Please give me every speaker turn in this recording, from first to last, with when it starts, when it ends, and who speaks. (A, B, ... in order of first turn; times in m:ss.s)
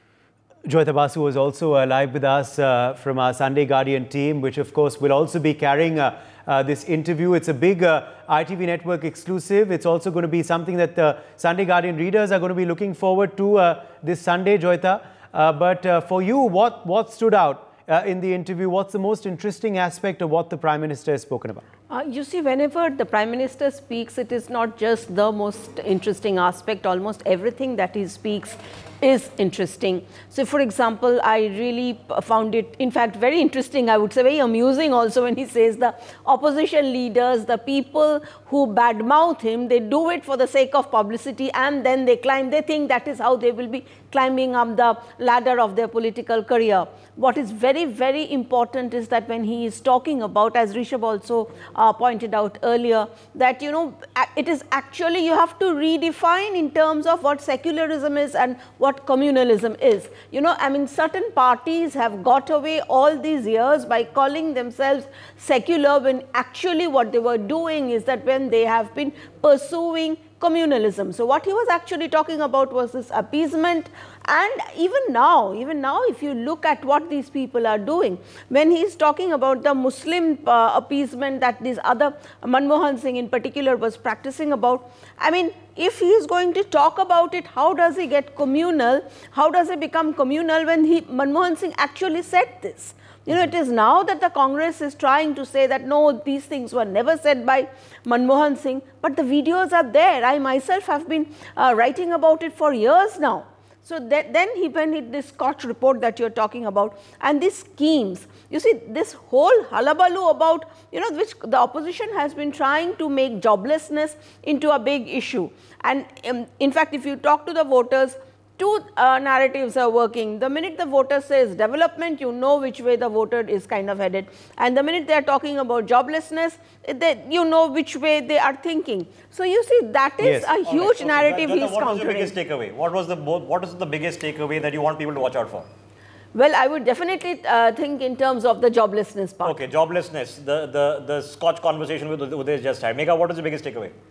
0:00.7-0:21.6 A
0:21.9-2:12.3 B
2:10.2-2:10.5 A
2:10.6-2:15.7 C
2:16.3-2:19.6 B
2:19.4-2:23.9 C